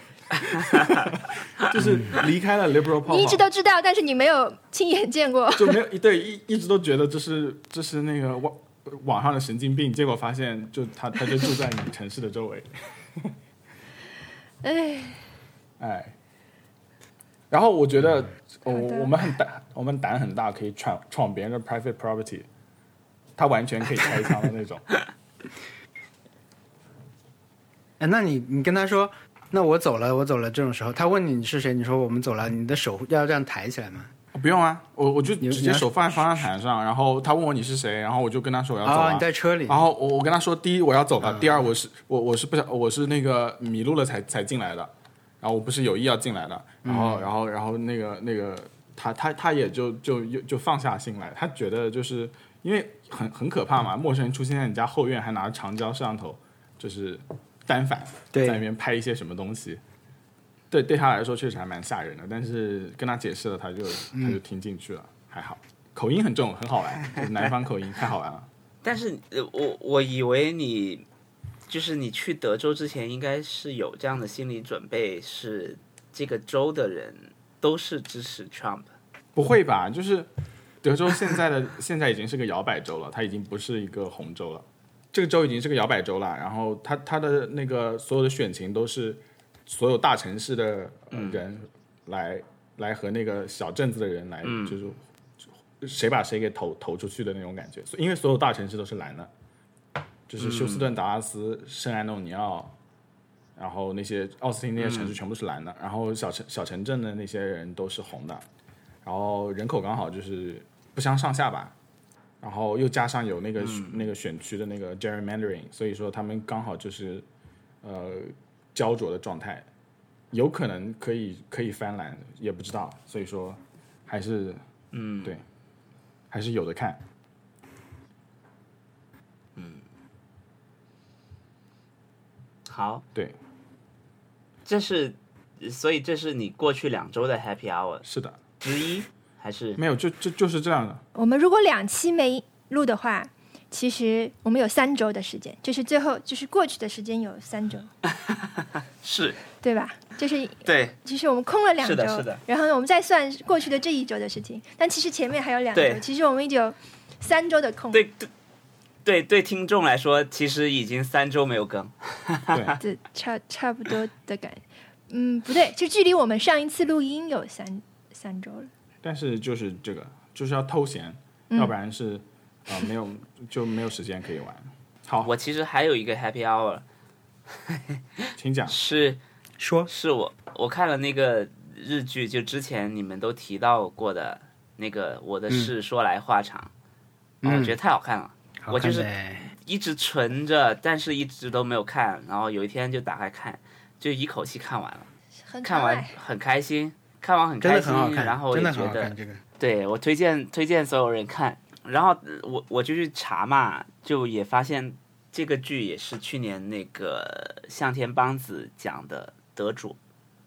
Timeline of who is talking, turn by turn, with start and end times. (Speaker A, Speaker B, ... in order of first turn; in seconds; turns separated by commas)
Speaker A: 0.3-3.4, Speaker B: 1.8-2.2, Speaker C: 3.1-5.8, Speaker A: 5.5-13.3, Speaker C: 14.6-15.3, Speaker A: 15.8-16.1, Speaker A: 17.5-22.5, Speaker C: 18.7-19.1, Speaker A: 23.4-25.0, Speaker B: 28.0-34.1, Speaker A: 34.3-59.8, Speaker B: 35.4-36.5, Speaker B: 38.8-39.8, Speaker B: 41.2-41.6, Speaker B: 46.9-47.3, Speaker B: 58.3-58.6, Speaker A: 60.7-68.5, Speaker B: 64.1-64.4, Speaker D: 68.8-71.1, Speaker D: 71.7-78.9, Speaker A: 79.3-80.3, Speaker A: 80.8-95.0, Speaker D: 91.1-91.4, Speaker D: 94.4-94.8, Speaker A: 95.8-99.3, Speaker A: 100.3-102.7, Speaker D: 100.4-100.9, Speaker A: 103.6-108.5, Speaker D: 104.8-105.2, Speaker A: 109.0-111.7, Speaker A: 112.4-117.2, Speaker D: 113.6-114.1, Speaker A: 117.8-119.7, Speaker A: 120.3-124.6, Speaker D: 124.9-125.4, Speaker A: 126.3-127.0, Speaker D: 129.6-129.8, Speaker D: 132.7-133.0, Speaker D: 134.7-138.0, Speaker A: 138.0-138.4, Speaker D: 138.6-139.8, Speaker A: 139.8-141.0, Speaker C: 141.2-147.9, Speaker D: 148.1-149.4, Speaker C: 149.6-158.0, Speaker D: 150.7-150.9, Speaker D: 151.8-152.4, Speaker D: 155.8-156.0, Speaker D: 157.9-158.3, Speaker D: 159.1-162.8, Speaker A: 162.5-162.8, Speaker C: 162.8-168.7, Speaker A: 169.0-175.3, Speaker D: 175.2-176.8, Speaker D: 177.7-179.2, Speaker A: 178.4-178.8, Speaker B: 179.6-179.9, Speaker D: 179.9-186.7, Speaker B: 187.4-187.8, Speaker D: 187.4-189.1, Speaker B: 188.6-189.5, Speaker D: 189.6-195.1, Speaker C: 195.5-196.2, Speaker D: 195.6-210.0, Speaker B: 197.6-199.4